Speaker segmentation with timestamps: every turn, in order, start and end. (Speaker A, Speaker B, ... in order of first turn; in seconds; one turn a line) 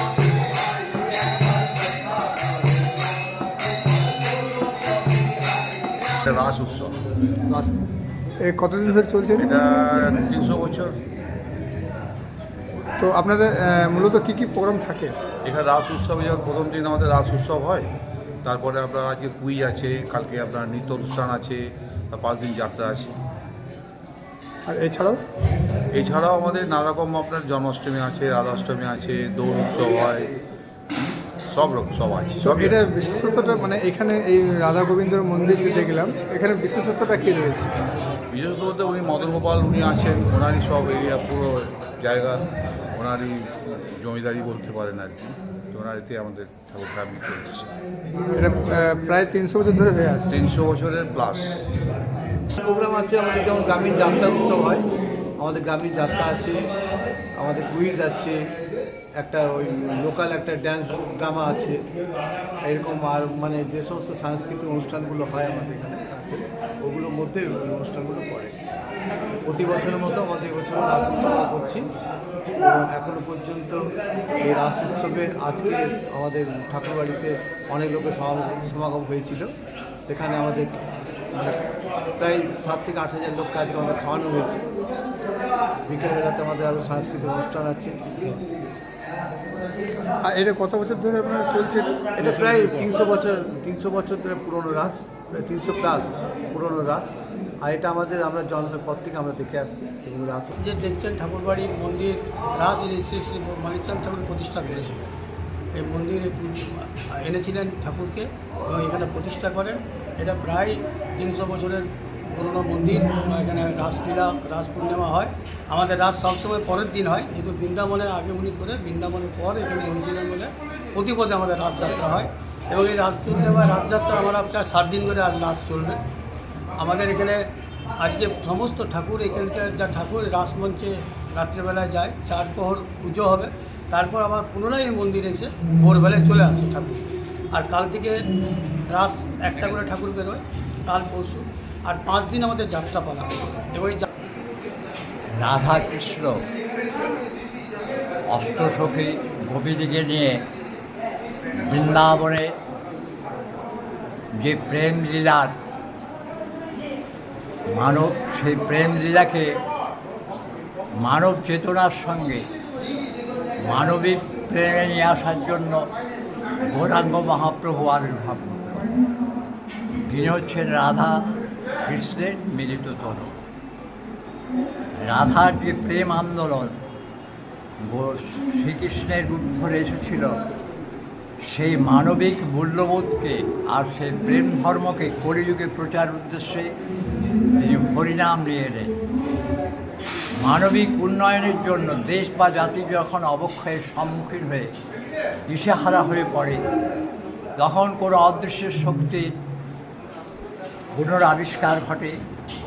Speaker A: 6.2-7.0
Speaker B: 7.5-7.7
Speaker B: 8.4-9.5
Speaker A: 9.3-11.0
Speaker B: 13.0-15.2
Speaker A: 15.4-17.9
Speaker A: 18.4-23.1
Speaker B: 24.7-25.2
Speaker A: 25.9-30.3
Speaker A: 31.5-32.9
Speaker B: 32.4-37.8
Speaker A: 38.3-47.7
Speaker B: 48.3-50.4
Speaker A: 50.3-51.8
Speaker C: 52.6-54.9
Speaker C: 55.4-56.7
Speaker C: 57.4-58.4
Speaker C: 59.2-61.8
Speaker C: 62.6-68.5
Speaker C: 69.5-71.9
Speaker C: 72.6-73.8
Speaker C: 74.4-79.5
Speaker C: 80.1-80.8
Speaker C: 81.3-84.7
Speaker C: 85.9-88.0
Speaker B: 90.1-92.7
Speaker C: 92.2-100.5
Speaker D: 100.6-105.0
Speaker D: 105.7-126.0
Speaker D: 126.8-138.3
Speaker D: 138.9-144.1
Speaker E: 145.3-146.4
Speaker E: 148.3-150.4
Speaker E: 151.5-152.6
Speaker E: 154.3-155.6
Speaker E: 157.7-159.6
Speaker E: 160.9-162.5
Speaker E: 163.6-165.9
Speaker E: 166.6-168.9
Speaker E: 170.0-171.1
Speaker E: 171.8-173.3
Speaker E: 175.0-176.7
Speaker E: 177.8-180.4
Speaker E: 181.4-186.7
Speaker E: 187.6-188.9
Speaker E: 190.4-194.7
Speaker E: 195.5-196.6
Speaker E: 197.6-199.3
Speaker E: 200.9-202.1